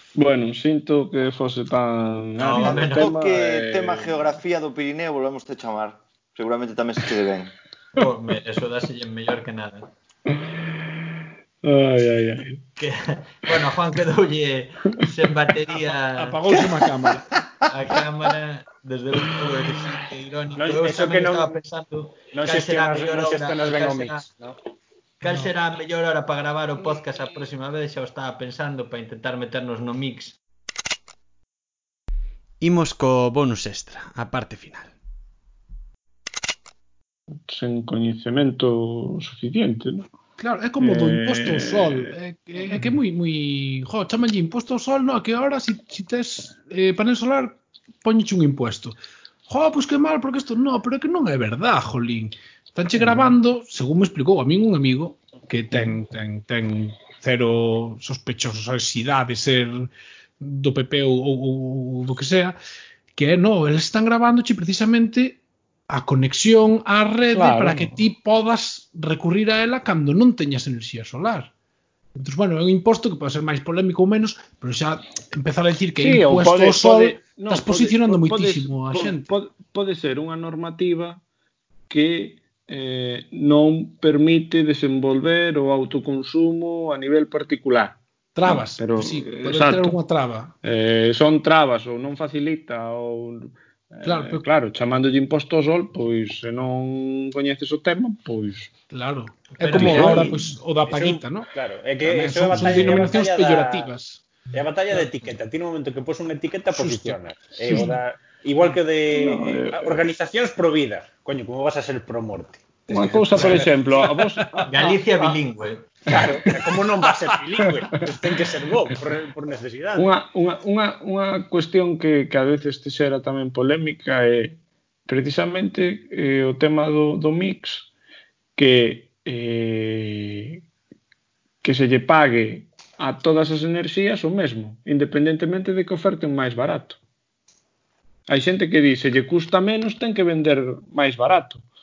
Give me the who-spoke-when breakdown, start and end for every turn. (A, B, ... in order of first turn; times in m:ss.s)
0:00.2-0:04.3 A
0:02.4-0:03.1 B
0:02.5-0:07.5 C
0:08.0-0:09.9 B
0:10.3-0:12.6 A
0:12.8-0:16.7 B
0:16.2-0:17.3 D
0:17.7-0:24.2 B
0:20.6-0:21.6 E
0:22.3-0:24.6 E
0:25.2-0:30.4 B
0:32.6-0:34.9 B
0:37.5-0:40.1 A
0:40.4-0:49.0 D
0:40.8-0:42.1 A
0:49.5-1:02.6 D
0:53.0-0:53.3 A
0:55.7-0:56.0 A
1:03.1-1:11.5 D
1:07.3-1:08.0 A
1:12.2-1:19.3 D
1:16.0-1:21.2 A
1:21.9-1:30.0 A
1:28.3-1:30.5 D
1:30.6-1:38.7 A
1:34.0-1:34.4 D
1:38.9-1:41.5 D
1:39.6-1:40.4 B
1:39.8-1:40.2 E
1:39.8-1:40.2 A
1:40.9-1:43.9 E
1:42.0-1:44.3 D
1:44.5-1:53.7 E
1:46.8-1:47.9 D
1:47.7-1:47.9 A
1:49.1-1:50.0 A
1:52.9-1:55.3 A
1:53.3-1:54.7 D
1:54.6-1:56.1 B
1:56.1-2:00.1 E
1:56.1-1:56.6 A
2:00.0-2:07.9 A
2:08.6-2:10.6 A
2:11.6-2:17.0 A
2:18.3-2:21.6 A